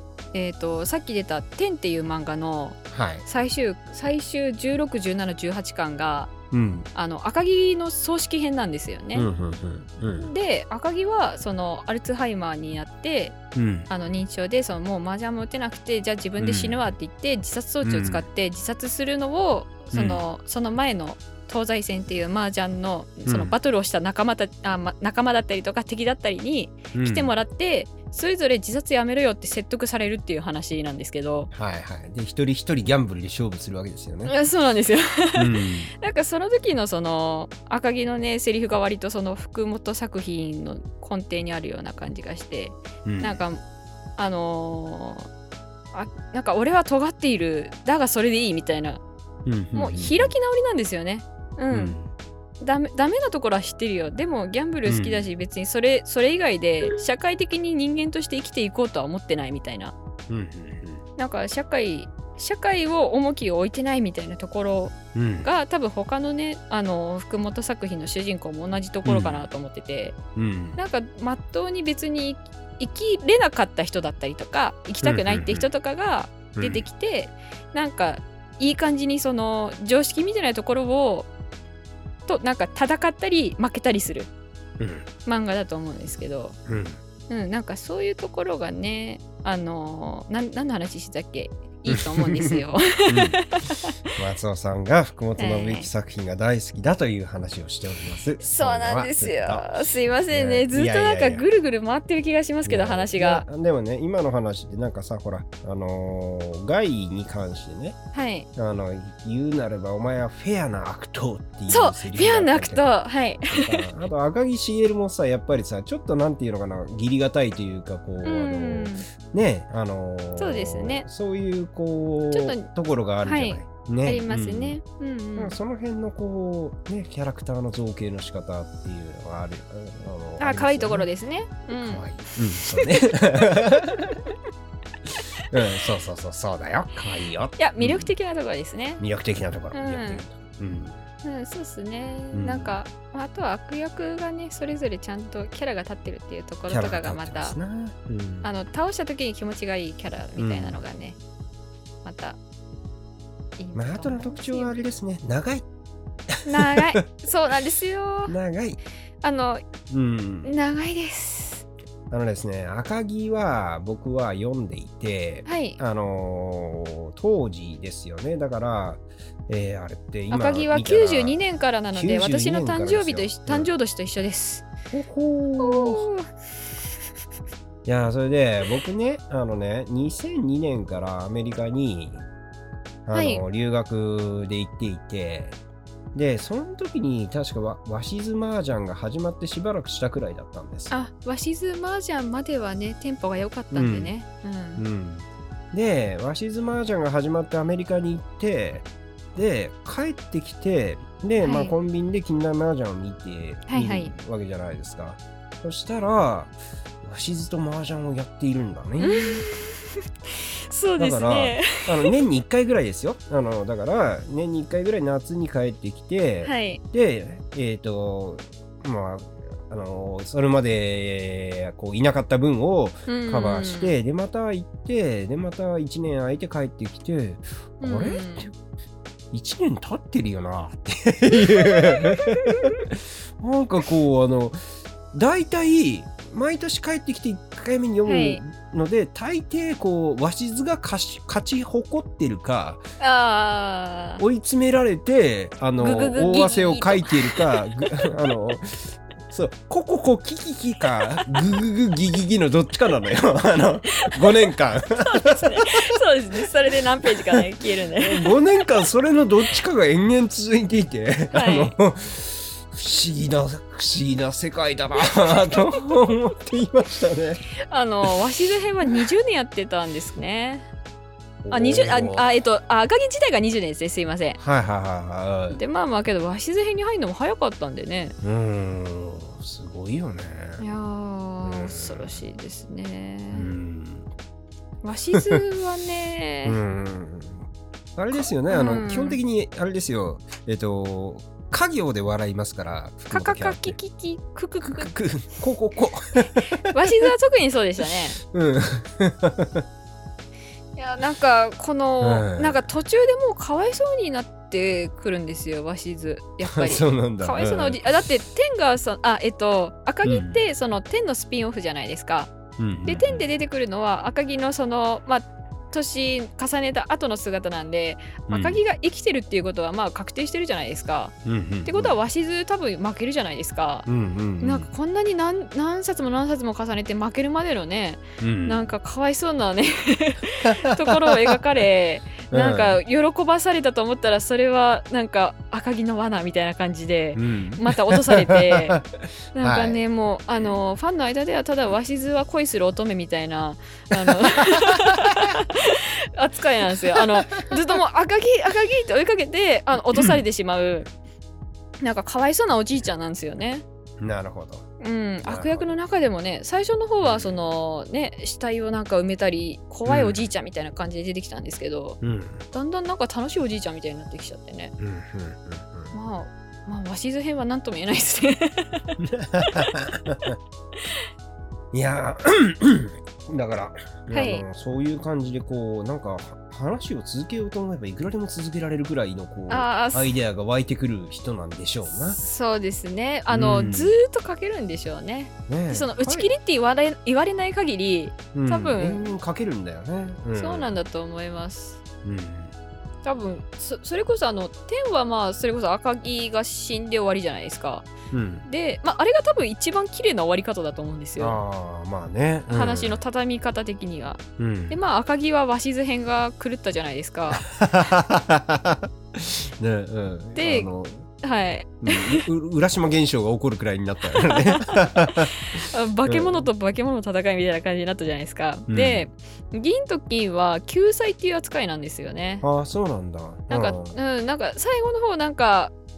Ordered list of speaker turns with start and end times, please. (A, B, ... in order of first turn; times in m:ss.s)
0:00.3-0:06.3 A
0:02.9-0:03.2 B
0:06.5-0:06.9 B
0:07.0-0:09.3 A
0:09.2-0:10.3 B
0:10.2-0:13.4 A
0:13.6-0:13.9 B
0:13.9-0:31.5 A
0:16.4-0:16.8 B
0:17.8-0:18.2 B
0:19.9-0:20.2 B
0:23.3-0:23.6 B
0:26.9-0:27.3 B
0:31.5-0:34.4 B
0:34.3-0:43.6 A
0:35.4-0:35.9 B
0:43.0-0:43.4 B
0:44.2-0:45.3 A
0:45.9-0:49.0 A
0:49.5-0:50.3 B
0:49.8-0:52.0 A
0:51.7-0:52.1 B
0:52.6-1:00.0 A
0:54.9-0:55.3 B
1:00.3-1:01.0 B
1:01.2-1:10.2 A
1:05.1-1:05.5 B
1:09.0-1:09.5 B
1:10.4-1:10.8 B
1:10.8-1:21.3 A
1:15.0-1:15.7 B
1:16.5-1:16.9 B
1:22.3-1:24.3 A
1:24.8-1:25.1 B
1:25.2-1:26.6 A
1:26.7-1:27.0 B
1:27.3-1:34.0 A
1:31.9-1:33.4 B
1:34.1-1:39.7 B
1:35.4-1:35.9 A
1:38.4-1:43.4 A
1:40.3-1:41.4 B
1:42.6-1:48.0 B
1:48.1-1:48.5 A
1:48.6-1:52.9 B
1:51.7-1:53.9 A
1:53.5-2:04.8 B
1:58.2-1:59.1 A
2:00.4-2:01.1 A
2:02.3-2:02.7 A
2:03.2-2:05.6 A
2:05.4-2:11.1 B
2:10.4-2:12.1 A
2:11.7-2:14.2 B
2:12.6-2:14.2 A
2:15.5-2:18.1 B
2:17.6-2:19.0 A
2:19.0-2:21.0 B
2:19.7-2:20.2 A
2:21.2-2:27.6 A
2:22.3-2:22.8 B
2:26.7-2:28.5 B
2:28.4-2:31.2 A
2:30.4-2:30.8 B
2:32.0-2:32.4 A
2:33.6-2:34.8 A
2:33.8-2:35.7 B
2:36.3-2:37.0 B
2:36.4-2:38.4 A
2:38.3-2:38.8 B
2:39.2-2:39.6 A
2:39.9-2:40.5 B
2:40.4-2:41.7 A
2:42.1-2:51.4 B
2:45.5-2:45.8 A
2:50.3-2:54.7 A
2:51.9-2:53.7 B
2:54.9-2:56.1 B
2:55.6-2:56.2 A
2:57.8-3:02.2 B
3:03.1-3:05.6 B
3:03.1-3:03.4 A
3:06.1-3:10.9 B
3:10.9-3:14.8 A
3:13.7-3:14.1 B
3:14.8-3:29.5 B
3:21.4-3:21.8 A
3:23.7-3:24.1 A
3:29.0-3:29.8 A
3:30.7-3:32.1 A
3:31.0-3:48.5 B
3:36.4-3:36.8 A
3:43.1-3:44.0 A
3:47.8-3:48.5 A
3:49.3-3:54.6 B
3:51.3-3:52.8 A
3:55.1-4:02.8 B
3:58.1-3:58.4 A
4:03.0-4:04.2 A
4:04.2-4:15.7 B
4:05.8-4:07.9 A
4:13.9-4:14.4 A
4:15.0-4:18.3 A
4:18.0-4:27.5 B
4:21.3-4:21.7 A
4:27.7-4:30.7 A
4:31.4-4:32.2 B
4:31.5-4:34.4 A
4:34.4-4:35.6 B
4:35.5-4:38.2 A
4:38.2-4:40.6 B
4:40.6-4:43.5 A
4:41.4-4:42.2 B
4:43.3-4:44.1 B
4:44.8-4:46.6 A
4:45.1-4:45.4 B
4:46.4-4:53.8 B
4:48.1-4:49.2 A
4:53.1-4:54.9 A
4:54.6-4:57.1 B
4:56.3-4:58.2 A
4:57.8-4:59.6 B
5:00.8-5:12.3 A
5:02.0-5:02.7 B
5:06.4-5:07.8 B
5:10.0-5:10.5 B
5:12.6-5:13.2 B
5:12.8-5:21.1 A
5:18.3-5:18.6 B
5:21.2-5:22.0 B
5:21.6-5:23.9 A
5:23.9-5:24.7 B
5:24.4-5:38.8 A
5:28.2-5:28.7 B
5:30.4-5:31.4 B
5:32.3-5:32.8 B
5:37.2-5:39.8 B
5:39.4-5:50.9 A
5:44.0-5:45.4 B
5:47.0-5:47.5 B
5:49.9-5:50.2 B
5:51.8-5:53.6 A
5:54.0-5:54.7 B
5:54.8-6:02.0 A
5:55.2-5:55.7 B
5:57.0-5:57.4 B
5:59.9-6:00.2 B
6:02.0-6:02.4 B
6:02.5-6:04.7 A
6:04.8-6:06.0 B
6:05.9-6:08.9 A
6:09.0-6:10.4 B
6:11.7-6:22.2 B
6:14.1-6:14.4 A
6:19.5-6:20.2 A
6:21.9-6:29.2 A
6:23.3-6:24.0 B
6:25.5-6:26.3 B
6:28.3-6:30.8 B
6:30.4-6:31.8 A
6:32.0-6:32.5 B
6:33.0-6:37.9 A
6:38.1-6:38.5 B
6:38.5-6:41.4 A
6:41.2-6:43.0 B
6:42.5-6:47.5 A
6:44.4-6:44.8 B
6:47.4-6:51.1 B
6:50.4-6:50.7 A
6:51.2-6:52.2 A
6:51.8-6:56.5 B
6:54.2-7:02.4 A
6:58.7-6:59.1 B
7:02.4-7:04.0 B
7:03.5-7:05.7 A